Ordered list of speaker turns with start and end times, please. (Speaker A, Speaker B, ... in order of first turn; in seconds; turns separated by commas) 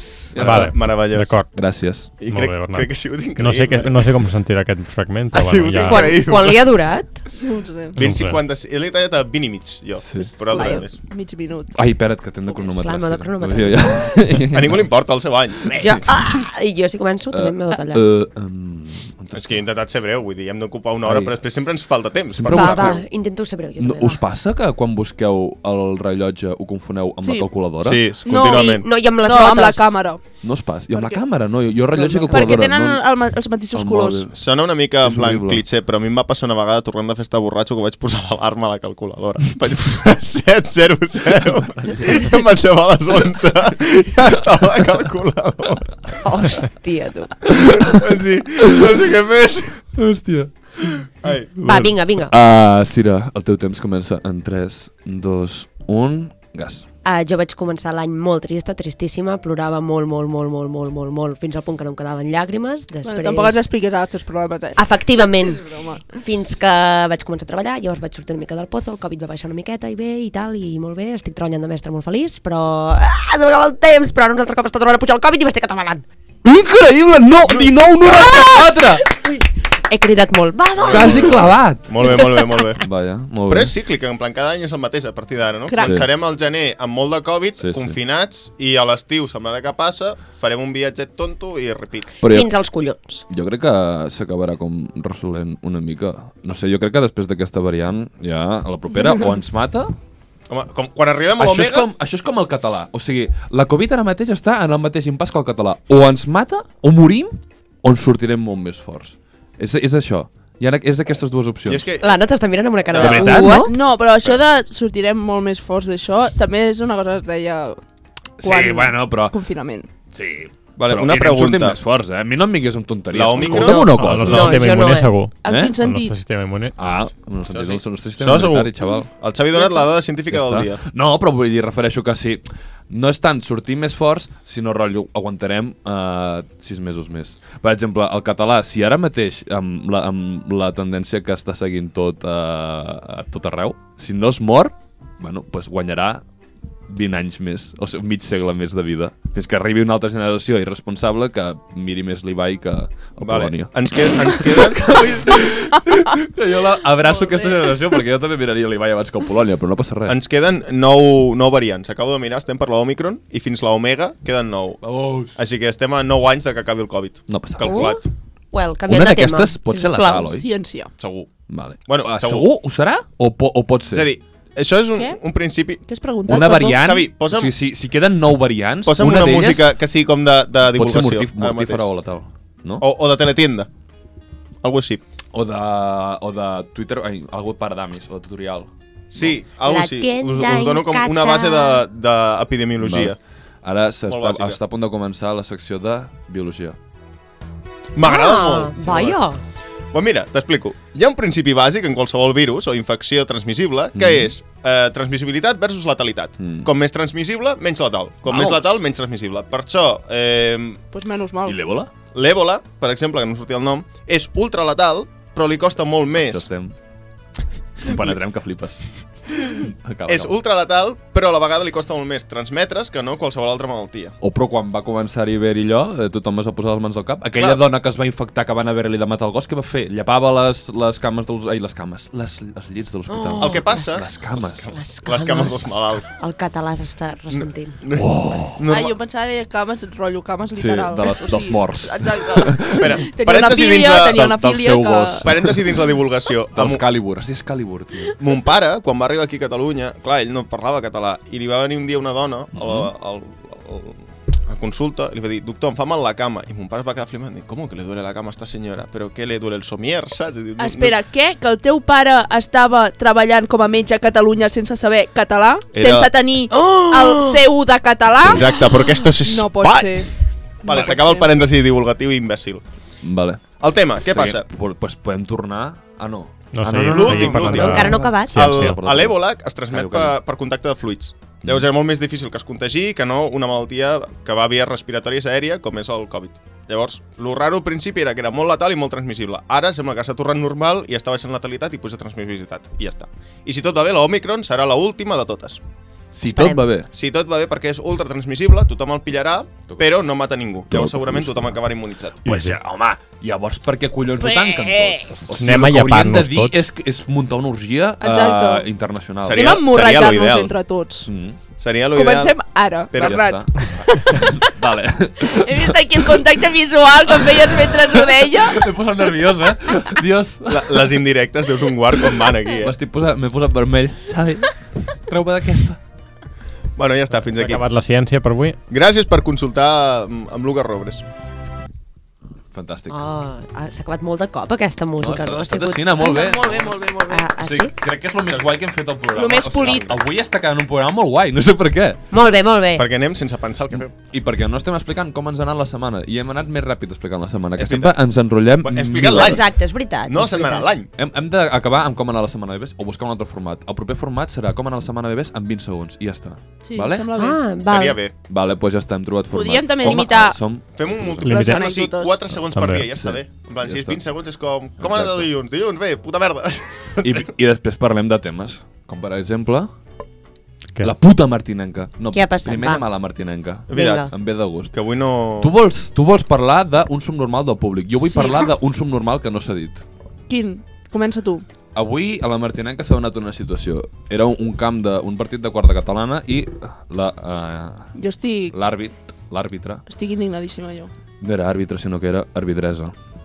Speaker A: 0.3-0.8, Speaker B: 0.3-1.4, Speaker C: 0.4-1.5, Speaker A: 1.5-2.1, Speaker B: 2.2-4.2, Speaker C: 2.3-6.2, Speaker B: 5.3-6.6, Speaker D: 5.6-7.2, Speaker E: 7.3-8.0, Speaker B: 8.0-11.0, Speaker C: 8.0-8.4, Speaker A: 10.0-10.8, Speaker E: 10.5-11.8, Speaker A: 11.7-14.9, Speaker D: 12.5-14.2, Speaker B: 14.5-15.8, Speaker A: 15.7-16.2, Speaker D: 15.7-18.0, Speaker A: 17.3-19.6, Speaker B: 19.3-23.0, Speaker A: 21.0-21.4, Speaker A: 22.3-23.0, Speaker D: 22.5-24.2, Speaker A: 23.8-28.1, Speaker E: 27.2-27.5, Speaker B: 27.8-28.9, Speaker E: 28.2-30.2, Speaker D: 28.4-30.0, Speaker A: 30.4-33.0, Speaker E: 30.9-31.2, Speaker D: 31.9-32.7, Speaker E: 32.3-34.3, Speaker A: 33.7-34.5, Speaker B: 34.3-46.1, Speaker A: 35.0-35.6, Speaker D: 46.2-47.6, Speaker B: 47.8-49.9, Speaker A: 50.0-50.5, Speaker B: 51.2-51.6, Speaker A: 51.6-56.9, Speaker D: 51.6-52.3, Speaker D: 57.0-63.6, Speaker E: 63.0-64.8, Speaker D: 64.8-76.0, Speaker E: 65.4-66.0, Speaker A: 76.4-79.1, Speaker D: 78.0-81.5, Speaker B: 80.8-82.9, Speaker A: 80.9-82.2, Speaker D: 82.0-82.6, Speaker A: 82.8-83.7, Speaker B: 83.5-92.1, Speaker E: 85.7-86.0, Speaker A: 85.8-86.1, Speaker A: 87.6-88.0, Speaker A: 92.2-92.5, Speaker D: 92.2-93.2, Speaker A: 93.3-99.9, Speaker B: 100.5-101.9, Speaker A: 101.4-111.9, Speaker B: 111.6-113.5, Speaker D: 112.0-113.7, Speaker A: 113.0-113.7, Speaker E: 113.5-117.8, Speaker A: 118.4-119.3, Speaker E: 118.4-119.9, Speaker A: 120.1-124.7, Speaker B: 120.8-121.8, Speaker B: 123.1-124.6, Speaker C: 123.9-126.7, Speaker D: 124.1-125.1, Speaker E: 125.4-126.2, Speaker A: 125.5-125.7, Speaker A: 126.8-129.1, Speaker B: 127.5-130.8, Speaker A: 130.3-146.2, Speaker A: 146.9-160.2, Speaker B: 153.2-155.0, Speaker E: 157.0-157.8, Speaker B: 160.1-168.1, Speaker A: 164.8-165.4, Speaker A: 167.3-167.9, Speaker D: 167.6-170.3, Speaker A: 168.8-170.5, Speaker E: 170.3-170.9, Speaker B: 171.0-171.3, Speaker A: 171.5-174.1, Speaker B: 171.8-172.5, Speaker B: 173.9-177.5, Speaker E: 174.9-175.2, Speaker E: 175.8-177.0, Speaker A: 176.3-179.7, Speaker B: 178.8-181.9, Speaker A: 180.6-182.8, Speaker B: 182.8-183.7, Speaker B: 184.6-185.0, Speaker A: 185.3-189.4, Speaker B: 189.1-193.2, Speaker D: 189.6-191.8, Speaker A: 192.8-196.8, Speaker B: 194.1-194.6, Speaker B: 197.9-199.2, Speaker D: 198.0-199.4, Speaker B: 199.9-210.8, Speaker A: 203.9-204.3, Speaker A: 206.4-206.7, Speaker A: 208.2-208.8, Speaker E: 210.9-211.6, Speaker A: 211.4-211.9, Speaker B: 212.1-216.5, Speaker A: 216.1-216.7, Speaker A: 217.8-220.3, Speaker B: 217.8-218.1, Speaker B: 220.1-224.2, Speaker A: 224.2-234.7, Speaker D: 233.1-234.1, Speaker B: 233.4-234.1, Speaker D: 234.7-237.8, Speaker B: 235.0-236.1, Speaker B: 237.3-238.9, Speaker A: 237.9-238.6, Speaker E: 238.7-245.3, Speaker A: 240.5-243.0, Speaker B: 242.8-244.2, Speaker A: 244.1-245.6, Speaker B: 245.2-246.8, Speaker A: 246.5-248.2, Speaker B: 248.2-260.9, Speaker A: 252.5-252.9, Speaker E: 260.6-271.4, Speaker B: 265.7-266.1, Speaker D: 266.5-267.4, Speaker B: 268.2-270.1, Speaker D: 268.6-269.0, Speaker B: 270.6-272.6, Speaker A: 273.0-273.4, Speaker B: 273.6-274.4, Speaker A: 274.0-280.2, Speaker C: 276.5-278.8, Speaker B: 276.9-295.6, Speaker D: 277.6-278.4, Speaker A: 296.1-296.9, Speaker D: 296.2-296.6, Speaker B: 296.9-302.2, Speaker A: 300.7-301.6, Speaker A: 302.2-309.6, Speaker C: 302.2-302.6, Speaker E: 304.2-305.2, Speaker C: 305.3-306.6, Speaker E: 308.0-308.6, Speaker B: 309.2-310.6, Speaker E: 309.3-311.1, Speaker A: 311.1-311.4, Speaker B: 311.6-312.4, Speaker E: 311.9-314.5, Speaker B: 312.9-313.2, Speaker A: 312.9-316.2, Speaker E: 315.3-318.6, Speaker A: 317.1-321.0, Speaker B: 320.5-322.7, Speaker A: 321.9-325.8, Speaker B: 326.8-327.7, Speaker C: 327.3-328.6, Speaker B: 328.7-331.0, Speaker A: 332.5-333.0, Speaker D: 332.9-336.1, Speaker A: 335.0-342.0, Speaker E: 335.9-337.3, Speaker D: 337.1-337.7, Speaker E: 339.1-339.9, Speaker D: 342.1-342.9, Speaker B: 342.7-343.9, Speaker A: 343.9-349.4, Speaker B: 347.6-347.9, Speaker B: 348.6-349.5, Speaker D: 349.0-350.7, Speaker B: 350.1-350.9, Speaker A: 350.9-357.1, Speaker E: 356.6-357.5, Speaker D: 357.1-358.0, Speaker B: 357.6-358.1, Speaker A: 358.3-361.3, Speaker E: 359.3-360.4, Speaker B: 360.7-367.2, Speaker C: 361.2-361.7, Speaker E: 361.3-362.2, Speaker C: 362.5-362.9, Speaker A: 362.7-364.0, Speaker A: 364.8-365.3, Speaker A: 367.0-369.7, Speaker A: 370.8-374.7, Speaker D: 372.1-372.9, Speaker D: 373.7-374.1, Speaker B: 373.7-374.2, Speaker B: 374.7-375.5, Speaker A: 375.4-379.8, Speaker E: 378.1-378.4, Speaker E: 380.3-381.4, Speaker A: 381.7-387.9, Speaker E: 387.9-388.5, Speaker A: 388.5-389.8, Speaker E: 389.9-390.9, Speaker A: 391.2-392.9